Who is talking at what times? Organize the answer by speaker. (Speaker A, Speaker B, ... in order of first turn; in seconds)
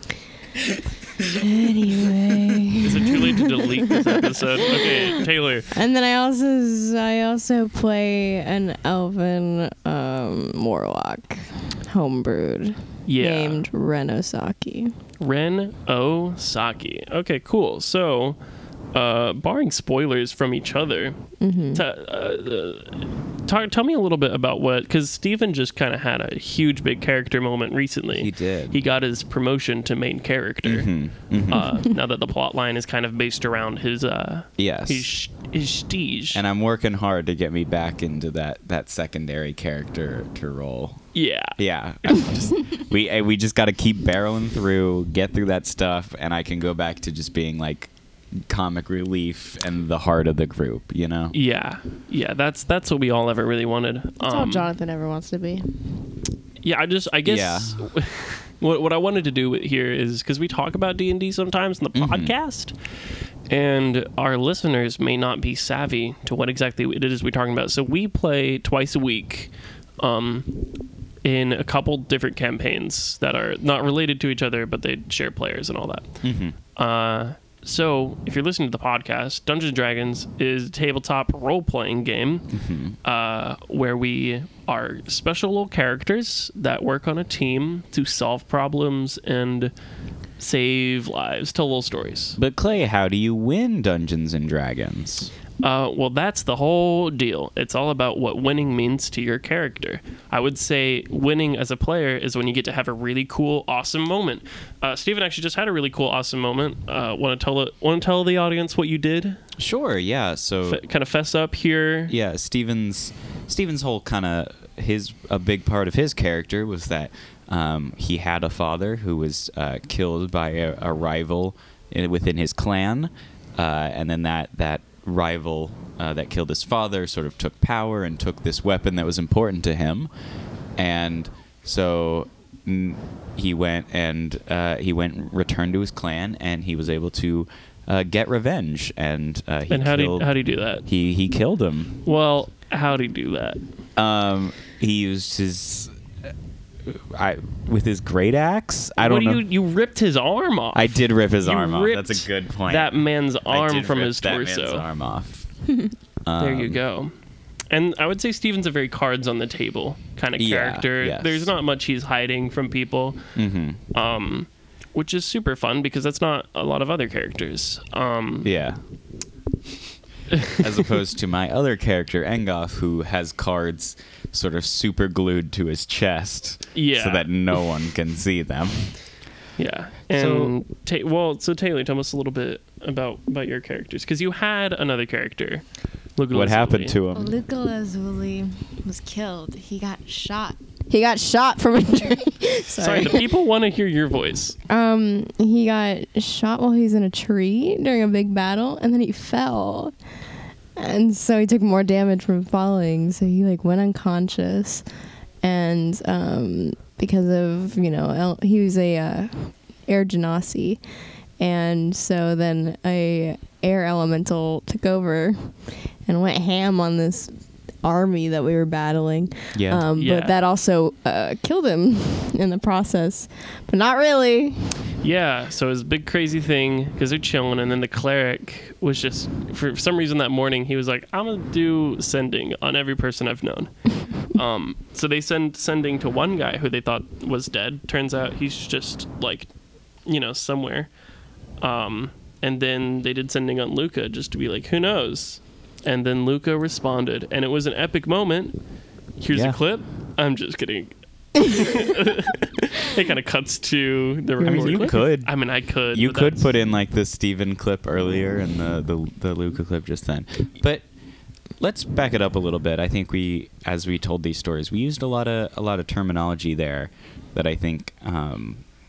Speaker A: 1.3-3.8, 5.7-14.9, 21.4-21.8, 54.2-55.9, 187.1-193.3, 194.7-199.9, 200.8-204.8, 205.4-210.8, 211.4-224.8
Speaker B: 2.8-5.7, 13.1-13.7, 15.2-18.4, 18.9-21.2, 21.7-30.9, 31.5-36.4, 41.1-42.3, 51.3-54.7, 56.6-62.8, 63.5-70.5, 71.2-76.2, 76.8-82.5, 83.0-89.7, 90.4-92.4, 95.6-109.4, 110.6-112.1, 139.7-140.9, 142.1-143.6, 149.0-154.8, 156.4-157.1, 157.7-163.3, 163.9-168.5, 176.7-177.3, 179.6-185.7, 186.2-187.0, 192.8-194.6, 220.0-220.4, 225.0-239.5, 240.1-240.9, 241.6-248.6, 249.2-256.5
Speaker C: 28.1-28.8, 30.6-31.9, 34.6-35.1, 36.3-51.4, 57.2-57.9, 61.9-62.3, 76.2-76.5, 82.5-83.0, 92.4-95.3, 109.6-110.8, 112.1-130.1, 130.8-140.3, 140.8-142.0, 144.0-145.9, 146.9-149.4, 150.7-155.5, 156.2-156.8, 160.4-161.5, 163.3-163.8, 168.4-168.8, 170.5-178.9, 180.1-180.5, 186.3-187.3, 219.5-219.9, 249.3-249.6, 254.4-260.9, 261.6-268.6